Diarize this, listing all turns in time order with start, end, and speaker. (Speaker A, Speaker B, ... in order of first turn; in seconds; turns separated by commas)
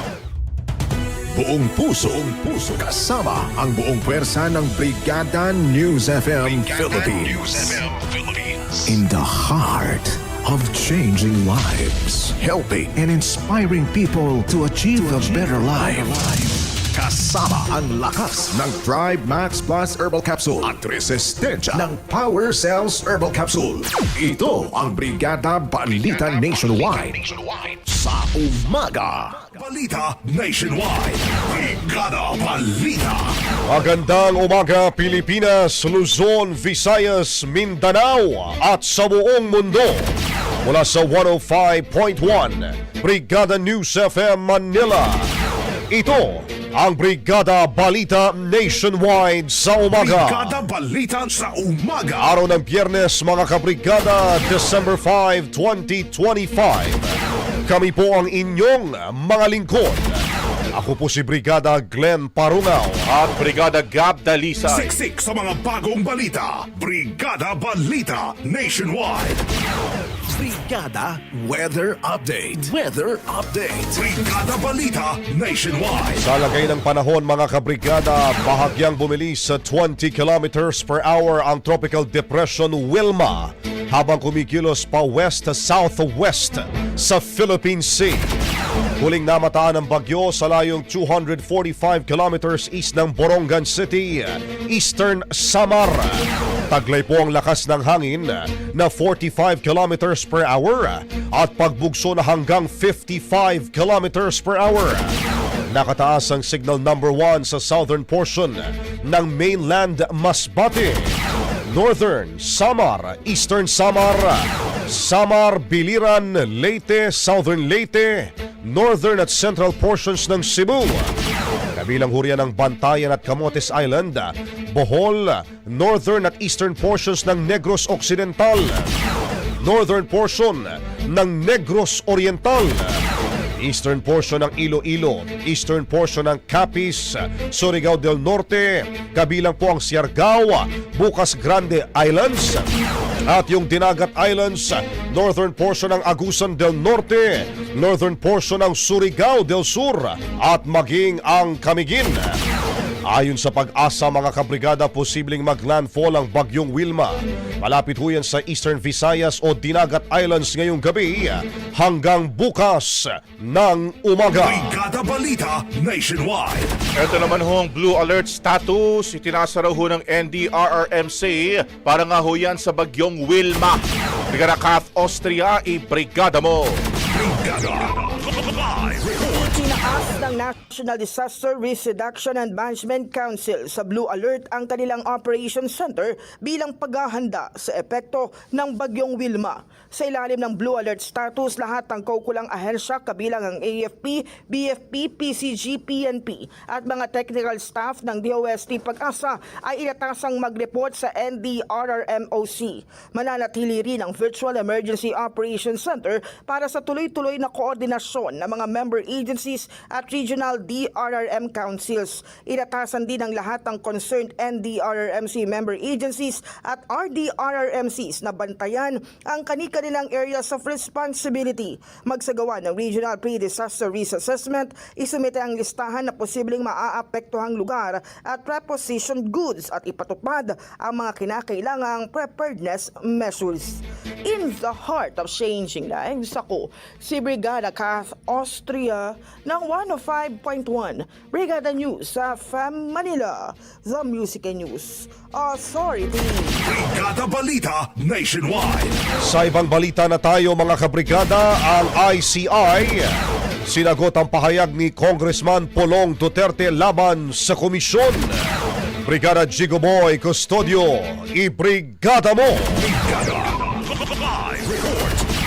Speaker A: 1.3-29.4, Speaker B: 29.4-33.4, Speaker C: 33.7-45.3, Speaker C: 45.9-50.6, Speaker B: 49.9-52.3, Speaker C: 52.2-57.1, Speaker C: 57.6-60.2, Speaker C: 60.7-63.0, Speaker D: 63.0-64.9, Speaker B: 64.7-69.4, Speaker A: 70.3-74.1, Speaker B: 73.9-76.2, Speaker C: 76.2-88.3, Speaker C: 89.0-96.2, Speaker C: 96.7-105.1, Speaker C: 105.7-111.1, Speaker C: 111.7-121.1, Speaker C: 121.7-128.9, Speaker C: 129.6-133.0, Speaker C: 133.6-142.7, Speaker C: 143.2-152.3, Speaker C: 153.1-164.8, Speaker B: 164.3-166.8, Speaker D: 166.9-176.8, Speaker B: 177.1-179.3, Speaker E: 179.2-246.6, Speaker B: 246.6-249.0, Speaker C: 249.2-253.1, Speaker C: 253.7-258.4, Speaker C: 259.0-262.8, Speaker B: 262.8-265.2